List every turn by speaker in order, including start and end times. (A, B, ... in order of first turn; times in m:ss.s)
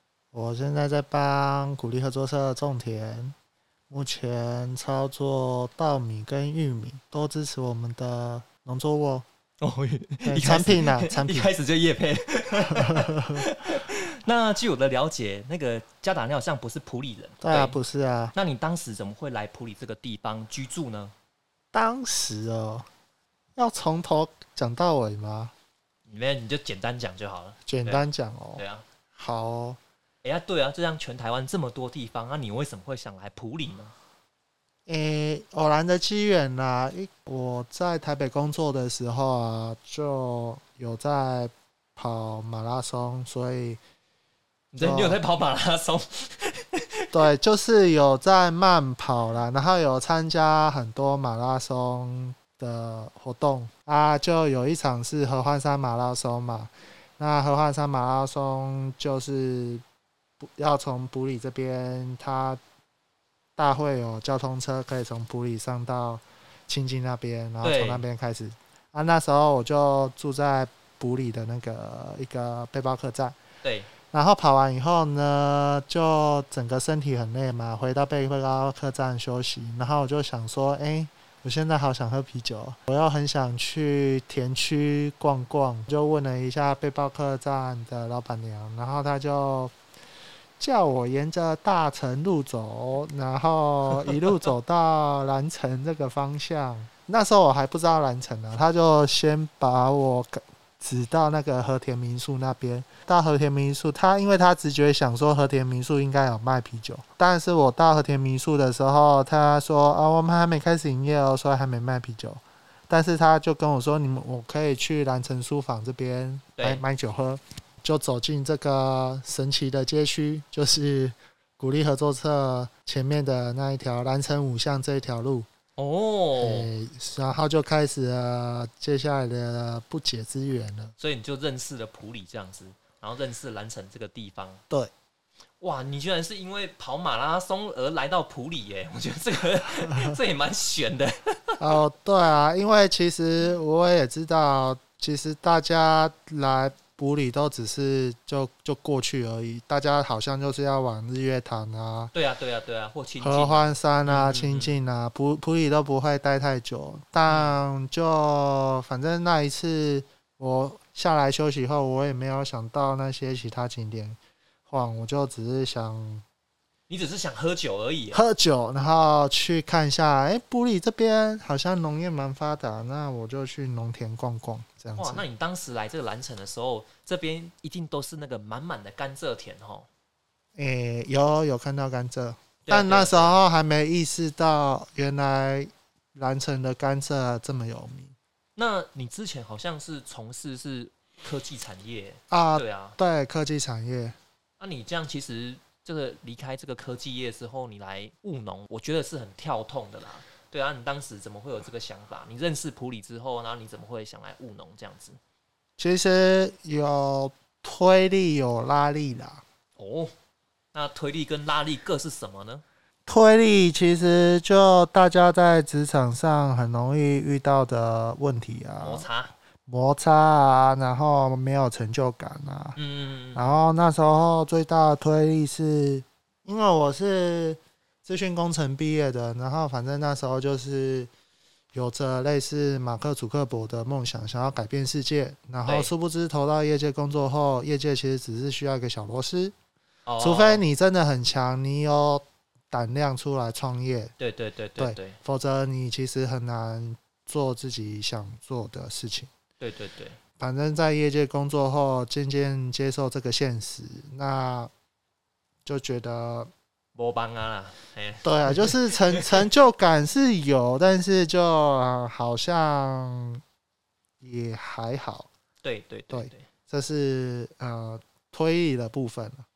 0:00.3-0:03.4 A
0:03.9-0:09.2 A
0:09.6-0:17.8 B
0:10.2-0:11.5 A
0:12.6-0:13.5 A
0:17.4-0:18.3 A
0:18.3-0:21.1 B
0:21.7-0:22.9 A
0:23.6-0:25.5 A
0:26.1-0:28.0 B
0:27.7-0:28.6 A
0:28.6-0:28.8 B
0:29.1-0:29.8 A
0:30.2-0:33.9 B
0:34.8-0:43.8 A
0:44.7-0:47.2 B
0:44.8-0:45.2 A
0:47.1-0:59.8 A
1:00.4-1:02.6 A
1:03.6-1:13.4 A
1:07.6-1:08.0 B
1:13.6-1:13.9 B
1:14.1-1:29.7 A
1:30.6-2:05.5 A
1:56.6-1:56.8 B
2:05.8-2:06.7 B
2:06.4-2:10.9 A
2:11.0-2:14.6 B
2:15.6-2:21.6 B
2:19.9-2:20.2 A
2:21.6-2:32.1 A
2:32.1-2:34.8 B
2:33.2-2:46.2 A
2:37.3-2:37.6 B
2:46.9-2:48.2 B
2:48.1-2:55.2 A
2:55.0-2:59.9 B
3:00.6-3:08.1 A
3:02.6-3:03.4 B
3:08.6-3:13.0 B
3:12.3-3:14.2 A
3:14.6-3:25.2 B
3:25.8-3:29.4 A
3:29.8-3:30.1 B
3:30.7-3:32.6 B
3:33.1-3:39.1 A
3:38.8-3:39.3 B
3:39.7-3:42.8 A
3:42.8-3:43.4 B
3:43.3-3:51.1 A
3:51.7-3:59.5 A
3:55.6-3:55.9 B
4:00.0-4:00.6 B
4:00.2-4:04.1 A
4:04.2-4:05.2 B
4:04.8-4:09.3 A
4:09.6-4:10.2 B
4:10.4-4:14.7 A
4:15.6-4:16.5 A
4:16.9-4:19.4 B
4:18.2-4:23.4 A
4:24.2-4:25.3 A
4:25.6-4:26.5 B
4:26.1-4:29.4 A